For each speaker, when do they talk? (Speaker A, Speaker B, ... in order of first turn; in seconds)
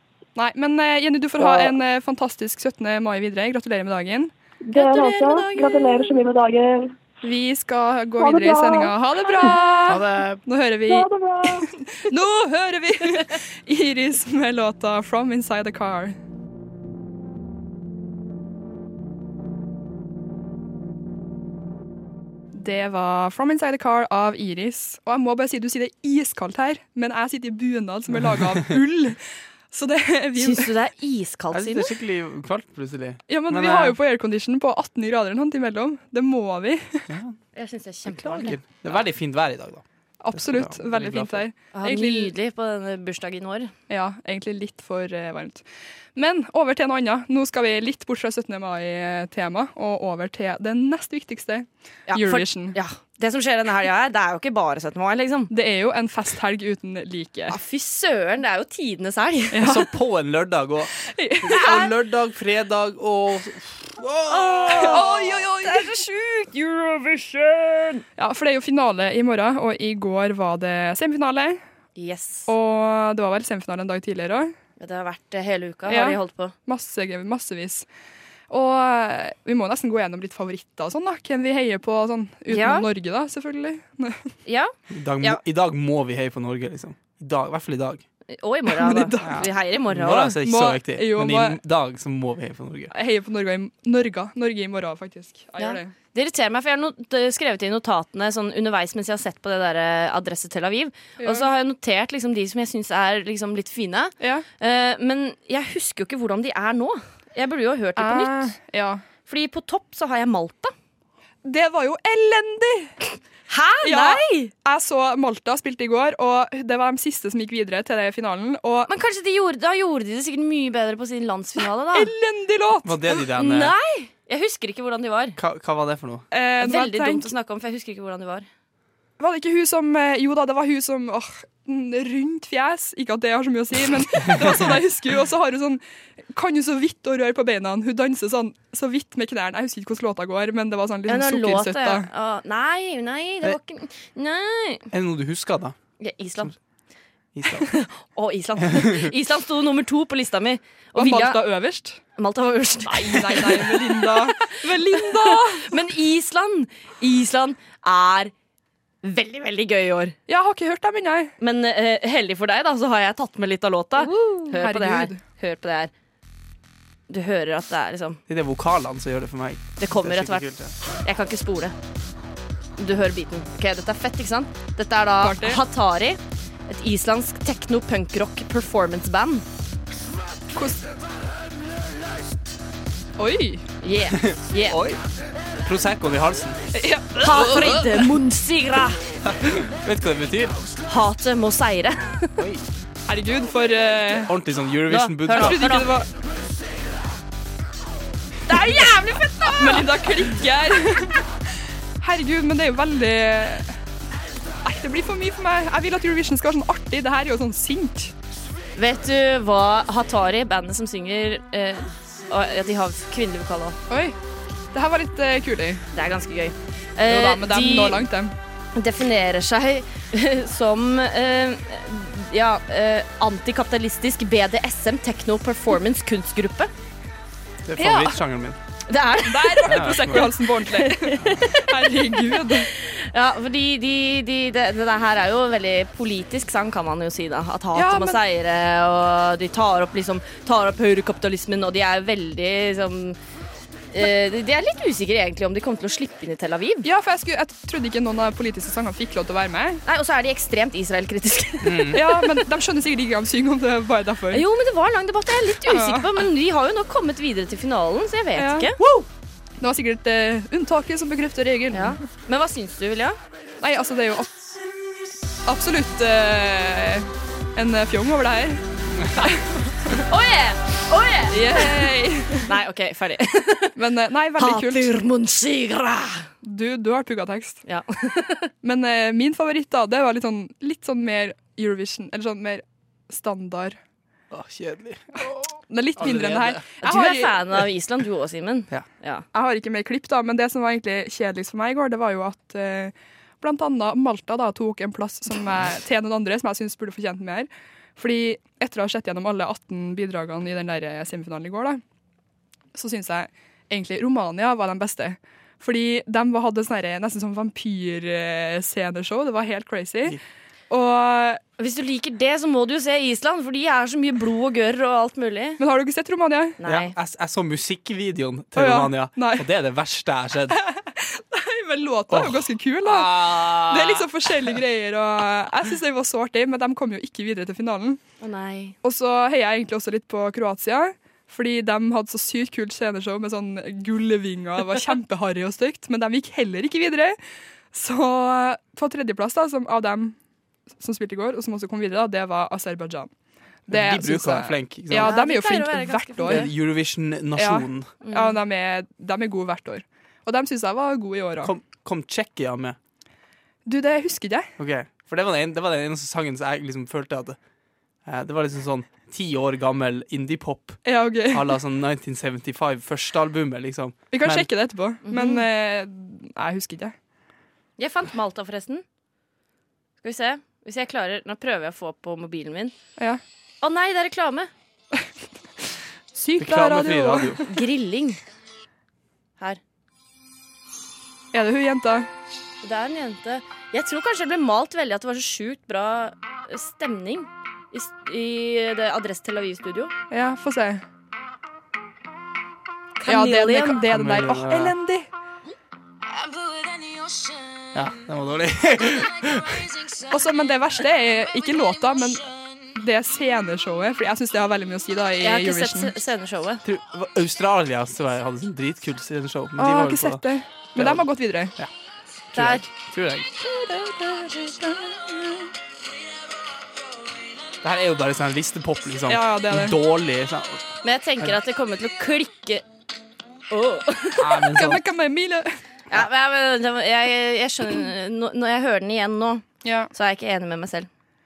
Speaker A: 0.3-4.3, 7.2-16.1, 22.6-29.2, 29.7-30.7, 33.3-37.1, 40.2-42.3, 43.9-52.8, 55.5-57.5, 59.5-59.9, 61.1-61.9, 64.8-65.9, 68.2-71.6, 72.5-74.5, 75.9-77.8, 78.5-84.2, 88.7-89.5, 90.4-91.6, 92.9-95.9, 101.2-101.5, 104.2-104.5, 108.0-109.0, 111.4-112.9, 113.8-118.9, 121.9-123.0, 126.3-127.3, 129.2-135.8, 136.3-142.1, 150.9-152.0, 152.8-155.7, 160.3-161.3, 164.0-165.2, 175.2-175.6, 180.5-180.8, 183.2-183.6, 186.7-187.5, 193.1-194.3, 195.3-196.1, 198.7-198.9, 199.5-201.3, 202.0-203.8, 204.6-208.1, 213.9-214.1, 214.7-215.8, 217.1-218.3, 227.8-228.2, 229.2-232.7, 237.7-238.2, 246.8-249.8, 251.9-254.4, 255.6-256.1, 258.4-259.1, 259.6-262.0, 263.6-264.3, 265.4-268.6, 269.2-270.0, 271.3-272.5, 273.8-274.9, 276.4-277.6, 278.6-283.8, 285.7-287.4, 289.3-301.8, 302.7-310.2, 310.7-311.4, 315.6-316.6, 318.6-319.4, 320.5-328.0, 328.8-337.2, 337.7-340.1, 340.8-343.1, 343.7-346.5, 347.3-351.5, 353.6-354.5, 360.8-361.6, 364.1-366.9, 376.1-377.5, 381.3-382.1, 390.1-390.8, 393.0-395.1, 400.1-405.9, 409.6-411.5, 419.1-419.8, 424.5-425.5, 429.6-429.9
Speaker B: 1.4-1.7, 4.6-6.9, 8.2-9.5, 10.9-11.7
Speaker C: 4.7-6.2, 30.4-31.9, 37.5-38.6, 41.7-43.7, 52.1-55.5, 57.5-59.6, 64.3-68.0, 72.0-72.5, 74.8-76.5, 82.5-82.8, 84.4-85.4, 88.3-90.4, 95.6-108.5, 109.2-110.7, 113.5-114.5, 118.9-122.1, 123.3-125.4, 126.6-128.5, 141.1-144.9, 146.0-146.5, 147.7-151.4, 152.2-158.3, 159.0-160.1, 161.4-165.9, 167.1-168.2, 169.8-170.5, 171.0-171.7, 172.8-179.4, 183.8-184.8, 187.2-189.0, 190.9-192.4, 194.9-195.9, 198.5-200.0, 208.7-213.8, 215.9-218.0, 218.8-226.7, 228.9-243.2, 243.9-246.9, 249.8-252.3, 254.3-258.8, 261.7-263.2, 270.1-273.8, 274.4-276.3, 277.6-278.5, 286.8-289.2, 311.6-315.6, 316.6-316.9, 328.2-328.7, 345.0-346.5, 348.0-348.4, 365.0-365.4, 367.8-368.8, 370.0-372.7, 373.6-374.5, 377.4-378.2, 382.6-389.9, 393.0-393.9, 405.2-406.6, 412.3-412.6, 413.4-414.7, 420.8-422.6, 423.5-424.3, 425.9-430.9
Speaker D: 9.9-10.4, 28.1-28.6, 31.5-34.0, 37.1-37.4, 38.0-41.4, 59.6-65.1, 84.9-88.0, 89.2-92.9, 122.8-123.7, 125.4-126.2, 144.9-145.8, 147.3-147.7, 148.6-149.1, 168.3-170.7, 184.1-185.0, 185.6-186.6, 187.2-188.0, 189.2-190.6, 192.4-192.7, 194.3-195.6, 227.6-228.6, 229.7-230.3, 251.6-252.0, 284.3-286.6, 316.6-320.6, 322.1-324.5, 343.7-345.2, 346.2-347.9, 351.4-352.8, 354.6-357.4, 358.1-364.5, 376.4-377.4, 393.9-394.8, 397.7-399.8, 406.6-411.7, 412.3-413.3, 417.6-420.6, 424.2-424.8